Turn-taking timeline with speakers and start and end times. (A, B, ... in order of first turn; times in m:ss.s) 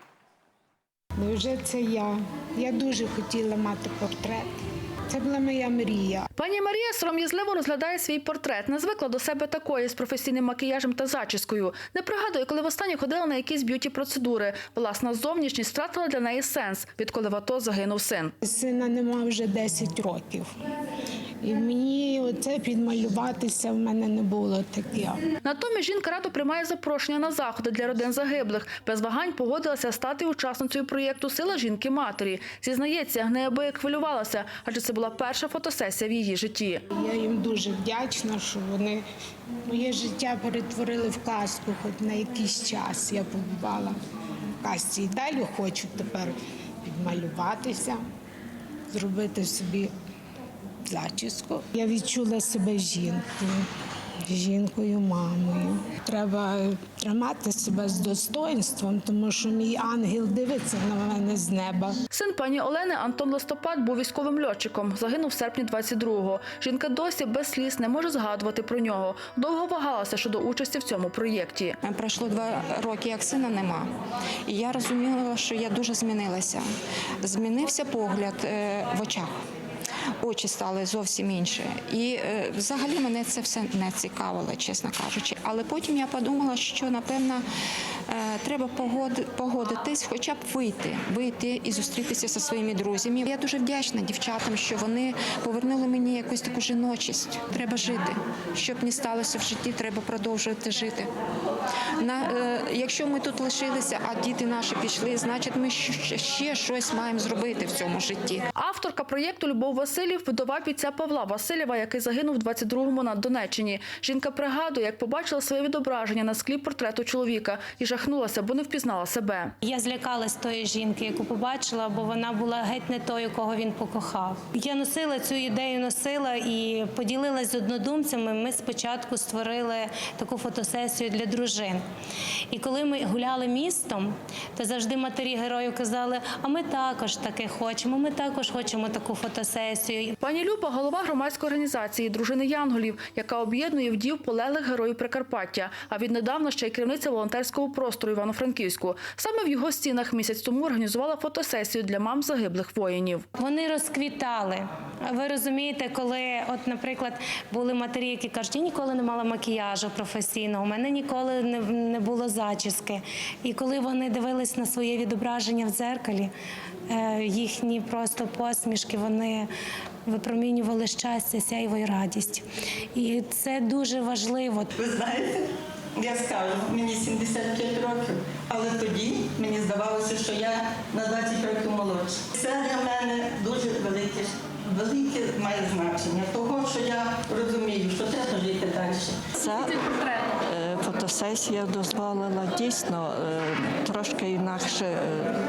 0:01.2-0:04.5 A
0:05.1-0:06.3 A
0:06.4-0:18.3 B
0:18.4-0:20.5 A
0:21.4-0:25.2 A
0:25.4-0:36.8 B
0:36.9-0:39.0 A
0:39.7-0:44.0 A
0:44.6-0:48.0 A
0:48.9-0:49.9 A
0:50.9-0:53.7 A
0:54.3-1:02.0 A
1:02.1-1:11.8 B
1:11.8-1:13.9 C
1:14.5-1:16.6 C
1:17.2-1:19.3 C
1:20.2-1:27.4 C
1:28.1-1:41.1 C
1:42.0-1:48.5 C
1:48.6-1:59.5 B
1:59.6-2:11.8 D
2:12.5-2:20.2 D
2:20.2-2:33.3 B
2:33.4-2:46.3 D
2:46.9-2:49.5 D
2:50.1-2:52.4 D
2:53.0-2:54.7 D
2:54.9-2:55.4 E
2:56.0-3:09.1 E
3:09.4-3:09.8 F
3:10.5-3:15.4 F